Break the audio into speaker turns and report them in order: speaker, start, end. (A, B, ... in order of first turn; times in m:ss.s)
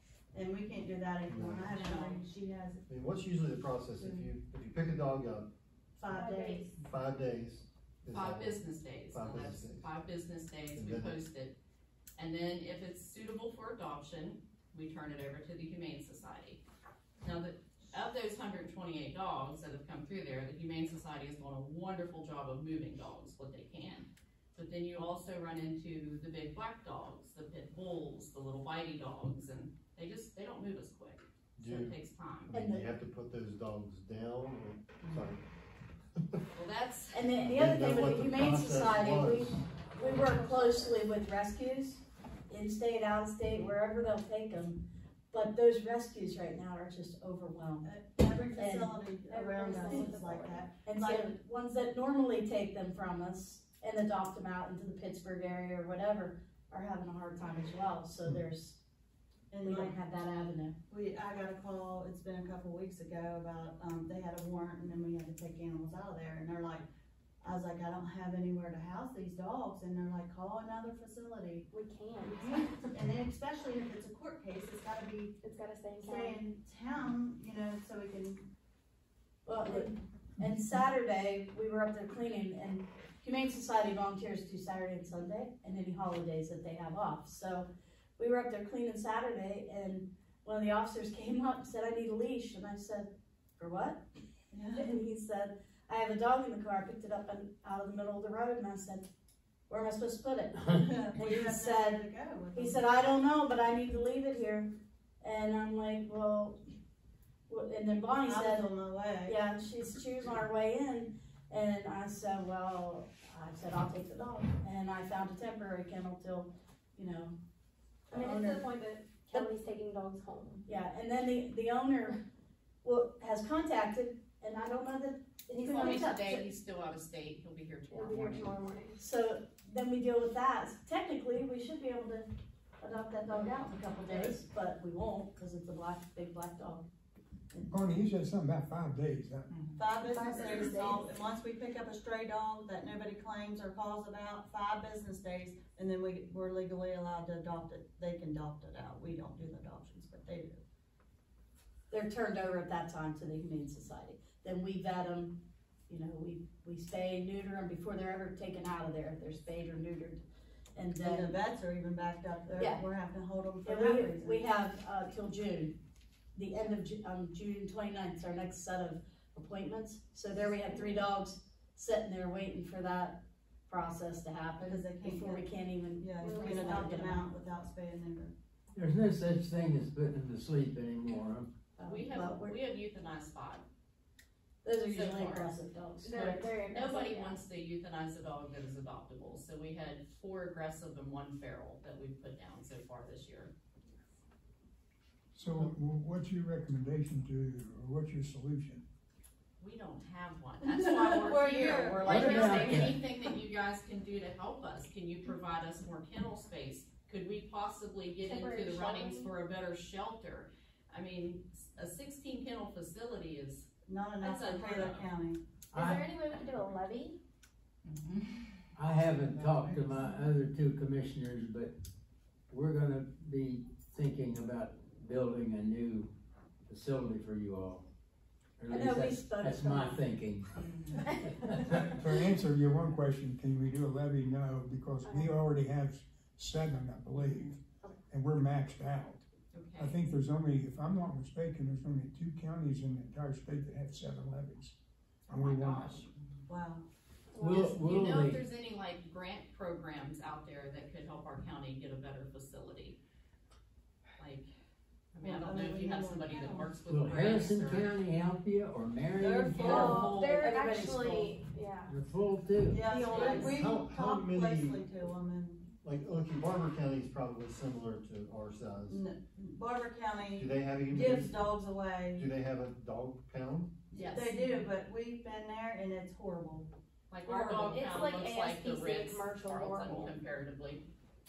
0:00.3-0:02.8 A
0:01.3-0:01.8 B
0:01.8-0:02.2 C
0:02.9-0:05.5 B
0:04.0-0:04.3 A
0:05.9-0:06.7 A
0:06.0-0:06.7 D
0:06.8-0:08.6 B
0:08.1-0:11.5 C
0:09.1-0:09.9 B
0:10.7-0:11.2 B
0:12.2-0:16.6 C
0:17.2-0:32.5 C
0:31.6-0:31.9 B
0:32.5-0:32.9 E
0:32.5-0:35.4 B
0:36.5-0:37.3 C
0:37.1-0:47.9 E
0:37.4-0:39.6 B
0:40.0-0:41.0 D
0:47.8-0:51.4 A
0:48.5-0:58.8 E
0:49.3-0:50.7 D
0:59.5-0:59.9 A
0:59.6-1:00.8 E
1:00.9-1:06.9 A
1:07.4-1:11.7 A
1:11.7-1:13.0 D
1:12.4-1:15.4 A
1:15.4-1:16.4 D
1:16.0-1:18.4 A
1:19.4-1:34.0 E
1:34.5-1:34.9 A
1:34.7-1:39.1 E
1:39.7-1:46.6 E
1:40.9-1:42.8 A
1:47.5-1:57.3 E
1:48.2-1:49.4 A
1:58.1-2:00.6 D
1:58.1-1:58.6 E
2:00.6-2:02.2 E
2:02.8-2:06.5 E
2:05.6-2:06.1 D
2:05.6-2:08.5 C
2:07.9-2:09.0 D
2:09.0-2:12.3 E
2:12.8-2:16.9 E
2:13.3-2:14.4 A
2:17.7-2:19.5 F
2:19.8-2:30.6 A
2:19.9-2:21.1 D
2:31.9-2:40.2 E
2:40.7-2:41.4 E
2:41.0-2:44.4 A
2:42.5-2:42.9 E
2:43.6-2:45.8 E
2:46.3-2:57.3 E
2:54.6-2:55.4 A
2:56.0-2:58.3 A
2:56.2-2:57.0 D
2:58.7-3:01.5 G
3:01.8-3:02.6 E
3:01.8-3:03.6 C
3:04.6-3:06.5 E
3:04.8-3:05.5 C
3:06.0-3:07.4 D
3:06.1-3:13.5 C
3:15.3-3:18.8 F
3:19.6-3:33.7 C
3:20.6-3:22.9 A
3:22.0-3:23.0 G
3:28.2-3:29.3 D
3:33.8-3:35.4 A
3:34.2-3:35.1 C
3:35.7-3:36.0 G
3:35.7-3:37.2 D
3:38.7-3:41.7 G
3:42.5-3:46.1 G
3:46.7-3:47.9 G
3:48.6-3:50.5 G
3:48.7-3:50.0 E
3:50.6-3:51.0 C
3:51.2-3:51.9 G
3:52.0-4:04.8 F
3:55.0-3:55.3 D
3:59.5-4:00.0 C
4:05.3-4:06.2 C
4:05.3-4:06.0 F
4:06.5-4:06.8 A
4:07.3-4:07.8 D
4:07.4-4:08.4 G
4:07.8-4:13.0 C
4:14.2-4:14.5 C
4:15.1-4:17.9 C
4:15.2-4:16.8 A
4:16.8-4:20.0 G
4:19.2-4:20.1 A
4:19.6-4:22.0 D
4:19.7-4:20.8 C
4:20.5-4:21.4 E
4:21.9-4:22.9 G
4:22.7-4:25.7 A
4:22.9-4:23.6 D
4:23.0-4:23.5 C
4:23.5-4:24.9 B
4:25.8-4:29.0 B
4:28.9-4:32.2 A
4:30.3-4:31.5 B
4:32.2-4:33.7 B
4:33.9-4:36.7 A
4:33.9-4:34.6 C
4:37.1-4:40.8 C
4:37.3-4:40.1 D